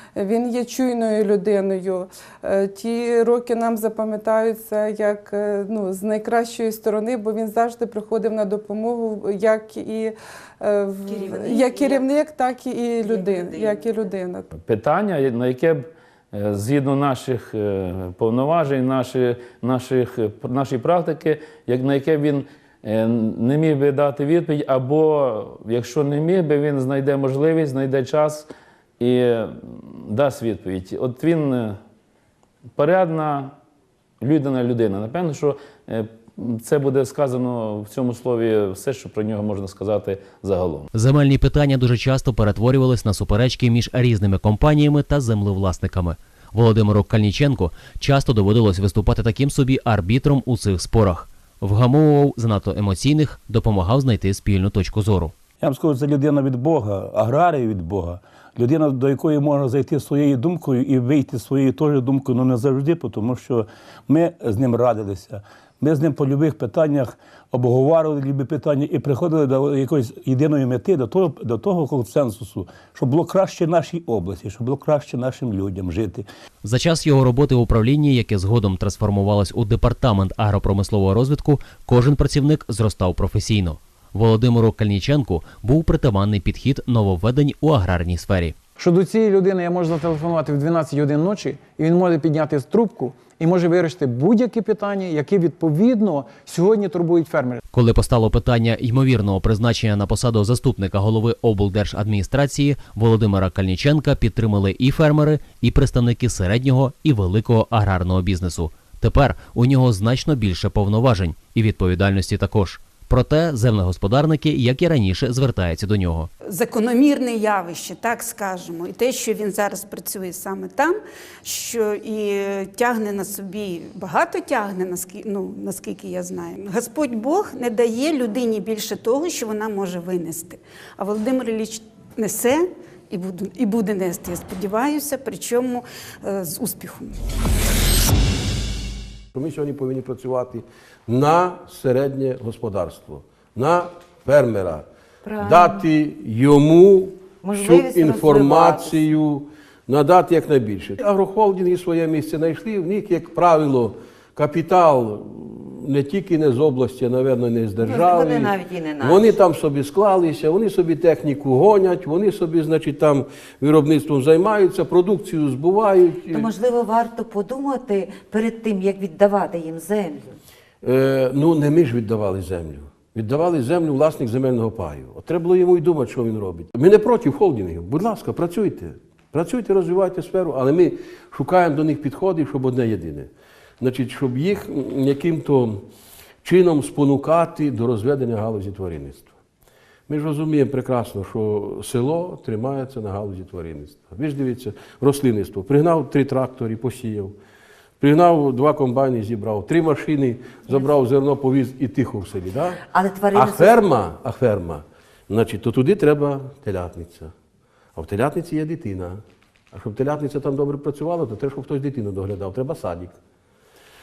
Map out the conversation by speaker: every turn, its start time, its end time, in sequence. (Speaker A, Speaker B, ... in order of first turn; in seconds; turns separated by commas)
Speaker A: 0.1-14.5, Speaker B: 11.1-12.1, Speaker B: 13.0-13.8, Speaker C: 14.5-31.8, Speaker C: 32.7-33.5, Speaker C: 34.2-40.9, Speaker D: 40.9-55.3, Speaker E: 55.6-76.2, Speaker D: 76.6-88.5, Speaker F: 88.8-97.6, Speaker D: 97.7-116.3, Speaker G: 116.5-137.2, Speaker H: 139.3-144.8, Speaker B: 145.2-145.8, Speaker H: 145.4-166.5, Speaker B: 147.4-149.0, Speaker B: 157.8-159.4, Speaker B: 166.3-170.4, Speaker H: 170.8-185.9, Speaker H: 186.4-189.3, Speaker H: 190.1-197.3, Speaker H: 198.0-202.8, Speaker B: 202.9-203.8, Speaker H: 203.3-207.3, Speaker H: 207.9-213.2